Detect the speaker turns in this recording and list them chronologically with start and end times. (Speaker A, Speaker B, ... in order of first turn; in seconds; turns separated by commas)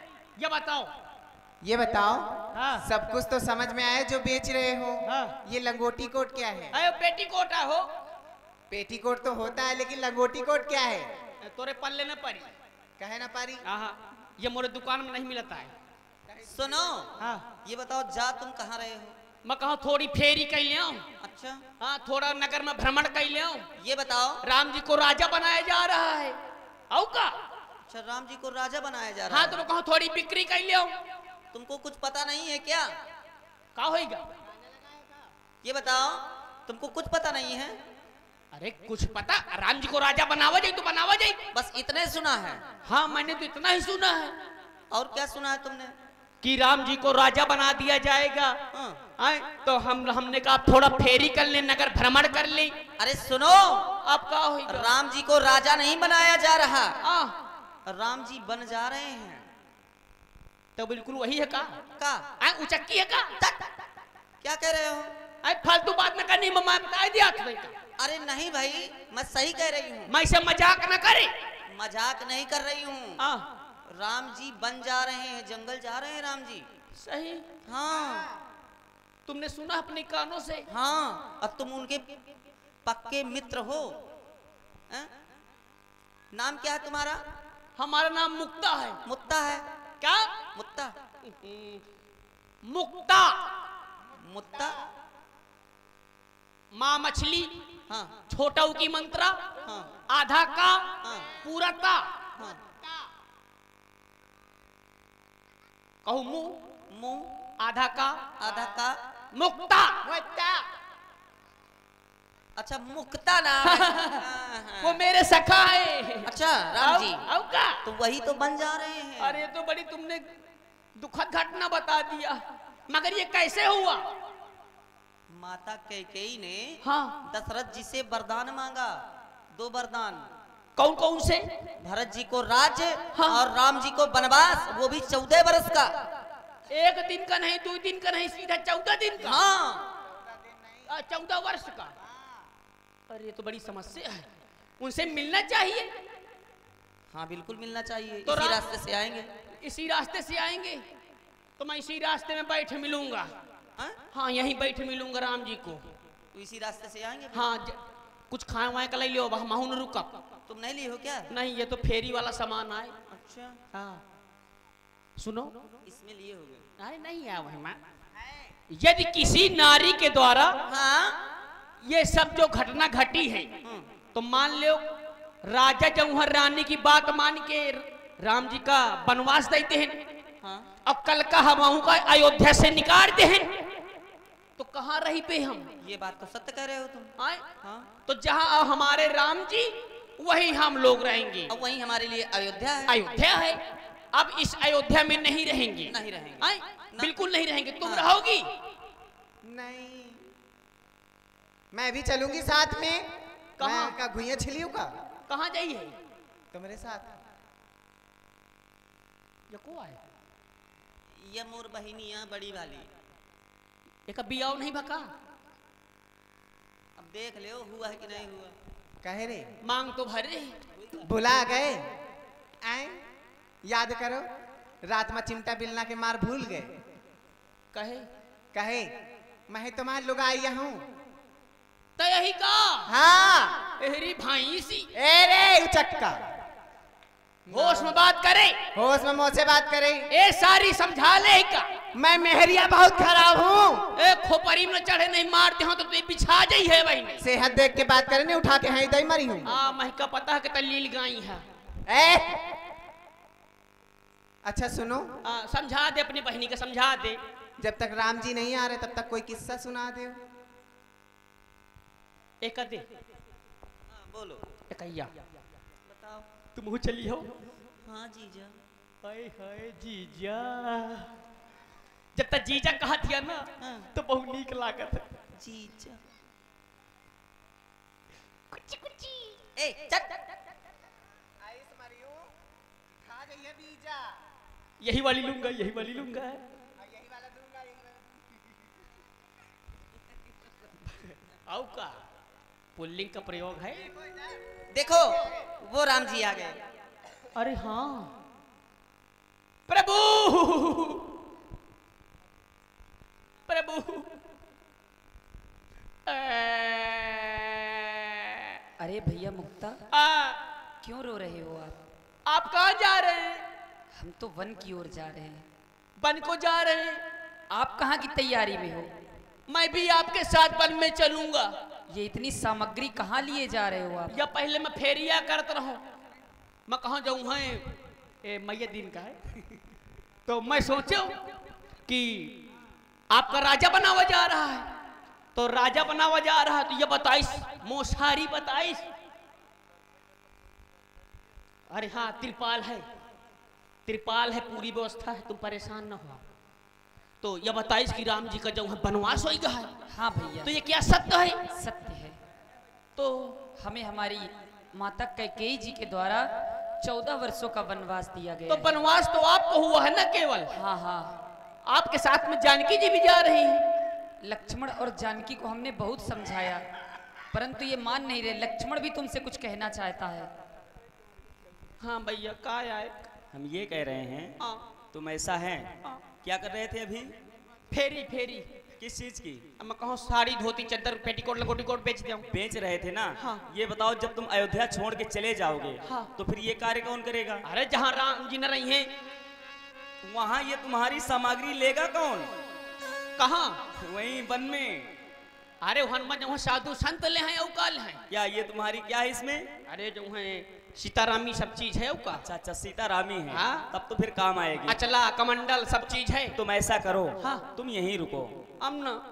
Speaker A: 0.4-0.9, Speaker B: 1.6-6.7, Speaker A: 2.5-2.8, Speaker A: 5.0-5.3, Speaker A: 6.7-7.9, Speaker B: 8.7-11.1, Speaker A: 11.4-12.5, Speaker B: 13.0-13.6, Speaker A: 13.6-15.7, Speaker B: 16.3-16.7, Speaker C: 16.5-19.1, Speaker A: 17.2-17.4, Speaker A: 19.4-21.0, Speaker C: 21.2-21.6, Speaker A: 21.8-23.7, Speaker C: 23.8-24.4, Speaker A: 24.4-26.4, Speaker A: 26.9-27.4, Speaker C: 27.9-29.6, Speaker A: 29.3-30.9, Speaker C: 31.5-32.9, Speaker A: 33.8-34.3, Speaker C: 35.6-37.8, Speaker A: 38.5-41.4, Speaker C: 41.5-42.6, Speaker A: 42.8-44.4, Speaker C: 44.9-45.9, Speaker A: 46.4-48.6, Speaker C: 48.7-49.0, Speaker A: 49.2-52.7, Speaker C: 53.0-53.9, Speaker A: 54.0-54.9, Speaker C: 54.6-57.0, Speaker A: 57.0-57.3, Speaker C: 57.9-59.4, Speaker A: 60.8-61.8, Speaker C: 62.0-62.2, Speaker A: 62.4-63.3, Speaker C: 63.4-63.7, Speaker C: 64.4-65.1, Speaker A: 65.4-67.8, Speaker C: 68.0-70.1, Speaker A: 70.1-71.3, Speaker C: 71.7-73.2, Speaker A: 73.2-73.5, Speaker C: 73.9-76.7, Speaker A: 77.0-77.4, Speaker C: 77.7-78.3, Speaker A: 79.2-80.7, Speaker C: 80.7-82.0, Speaker C: 82.8-83.9, Speaker C: 86.3-87.2, Speaker A: 87.8-89.0, Speaker C: 89.0-89.6, Speaker A: 90.0-90.4, Speaker C: 90.5-90.9, Speaker A: 91.2-91.8, Speaker A: 92.6-93.5, Speaker C: 94.2-94.8, Speaker A: 96.7-97.5, Speaker C: 97.9-98.2, Speaker A: 98.3-99.4, Speaker C: 99.6-99.9, Speaker A: 100.1-102.1, Speaker C: 101.0-101.3, Speaker A: 106.0-106.6, Speaker C: 106.9-107.3, Speaker A: 107.6-108.3, Speaker C: 108.4-109.0, Speaker A: 109.3-110.0, Speaker B: 110.0-110.7, Speaker C: 112.6-115.0, Speaker A: 113.6-114.2, Speaker A: 114.8-117.8, Speaker C: 116.2-117.2, Speaker C: 117.8-119.4, Speaker A: 119.2-120.2, Speaker A: 121.0-124.1, Speaker C: 125.3-129.0, Speaker A: 126.8-127.2, Speaker C: 129.5-130.3, Speaker A: 130.8-131.4, Speaker C: 131.8-136.0, Speaker A: 133.1-133.4, Speaker A: 136.7-139.4, Speaker C: 139.2-139.9, Speaker B: 140.0-140.9, Speaker A: 140.9-141.9, Speaker A: 143.1-144.3, Speaker A: 144.8-145.9, Speaker C: 147.1-149.3, Speaker A: 148.2-148.6, Speaker A: 149.6-150.8, Speaker A: 151.6-153.3, Speaker A: 154.1-155.8, Speaker C: 156.3-157.5, Speaker A: 157.3-157.8, Speaker A: 158.3-160.1, Speaker C: 160.5-161.3, Speaker A: 161.3-162.9, Speaker C: 163.1-163.6, Speaker A: 163.7-164.0, Speaker A: 165.2-165.5, Speaker C: 165.8-166.6, Speaker A: 166.8-167.8, Speaker A: 168.7-170.6, Speaker C: 170.7-171.2, Speaker A: 171.8-173.5, Speaker C: 173.6-173.9, Speaker A: 174.1-174.8, Speaker A: 175.4-180.0, Speaker C: 180.4-180.7, Speaker A: 180.8-183.5, Speaker A: 184.6-185.7, Speaker C: 185.8-187.9, Speaker A: 188.1-191.5, Speaker C: 191.5-192.9, Speaker A: 192.9-193.6, Speaker A: 194.1-198.5, Speaker C: 195.9-197.1, Speaker C: 197.8-198.1, Speaker B: 199.4-200.2, Speaker B: 201.7-203.1, Speaker A: 203.6-203.9, Speaker B: 203.6-204.9, Speaker A: 205.3-205.9, Speaker B: 206.5-207.2, Speaker A: 209.5-210.0, Speaker C: 211.1-212.9, Speaker A: 214.1-215.1, Speaker C: 217.0-218.5, Speaker B: 219.0-219.4, Speaker A: 219.6-220.6, Speaker B: 221.0-221.8, Speaker B: 222.6-223.0, Speaker B: 223.6-224.2, Speaker B: 224.9-226.7, Speaker A: 227.7-228.1, Speaker B: 228.5-228.9, Speaker B: 229.5-230.8, Speaker A: 232.0-232.9, Speaker B: 232.9-233.6, Speaker A: 233.8-234.9, Speaker B: 234.9-236.2, Speaker B: 237.5-238.0, Speaker A: 237.5-238.6, Speaker B: 238.7-240.1, Speaker A: 240.1-241.7, Speaker B: 241.9-243.8, Speaker A: 243.9-247.2, Speaker B: 247.2-249.5, Speaker A: 249.4-251.4, Speaker B: 251.9-252.4, Speaker B: 254.4-255.1, Speaker A: 255.2-257.2, Speaker B: 257.6-260.2, Speaker A: 262.4-262.9, Speaker C: 263.9-264.4, Speaker A: 264.7-265.1, Speaker C: 265.9-266.2, Speaker A: 266.5-267.3, Speaker C: 267.8-268.6, Speaker A: 269.0-271.1, Speaker A: 272.1-275.1, Speaker C: 273.6-273.9, Speaker C: 275.4-276.0, Speaker A: 278.5-279.4, Speaker C: 279.6-280.2, Speaker B: 281.4-282.3, Speaker B: 283.0-284.1, Speaker A: 284.8-286.4, Speaker B: 286.8-288.2, Speaker A: 290.9-292.0, Speaker A: 292.8-293.9, Speaker C: 294.7-296.6, Speaker A: 297.3-298.1, Speaker A: 299.7-301.0, Speaker A: 303.5-304.2, Speaker A: 306.1-308.5, Speaker D: 308.8-309.8, Speaker A: 309.9-310.4, Speaker D: 310.8-311.8, Speaker A: 312.3-313.4, Speaker D: 314.0-315.4, Speaker A: 316.0-317.0, Speaker D: 317.5-318.9, Speaker A: 319.5-321.5, Speaker D: 321.9-324.2, Speaker A: 324.1-325.8, Speaker A: 326.7-329.2, Speaker A: 330.2-331.2, Speaker A: 331.9-332.4, Speaker A: 333.1-334.7, Speaker A: 335.3-338.8, Speaker A: 341.7-342.9, Speaker A: 343.9-346.2, Speaker A: 347.2-349.7, Speaker D: 349.9-350.5, Speaker A: 350.4-351.4, Speaker D: 351.5-352.2, Speaker A: 352.9-353.4, Speaker D: 353.6-356.2, Speaker D: 356.8-358.8, Speaker A: 358.5-360.5, Speaker D: 360.5-361.2, Speaker A: 361.7-363.6, Speaker D: 364.2-366.6, Speaker D: 367.3-370.3, Speaker A: 371.8-373.0, Speaker E: 373.3-374.4, Speaker E: 374.9-375.7, Speaker E: 376.2-377.1, Speaker A: 377.7-378.5, Speaker E: 378.8-379.4, Speaker A: 379.6-382.2, Speaker E: 382.3-387.4, Speaker A: 383.2-383.4, Speaker A: 385.8-386.1, Speaker A: 387.4-388.9, Speaker E: 390.0-392.3, Speaker A: 393.2-393.6, Speaker E: 393.8-394.9, Speaker A: 395.6-398.0, Speaker E: 398.1-399.5, Speaker A: 399.7-402.2, Speaker E: 402.1-404.8, Speaker A: 403.3-403.7, Speaker A: 404.7-406.4, Speaker E: 406.4-408.3, Speaker A: 407.2-407.4, Speaker A: 408.6-409.0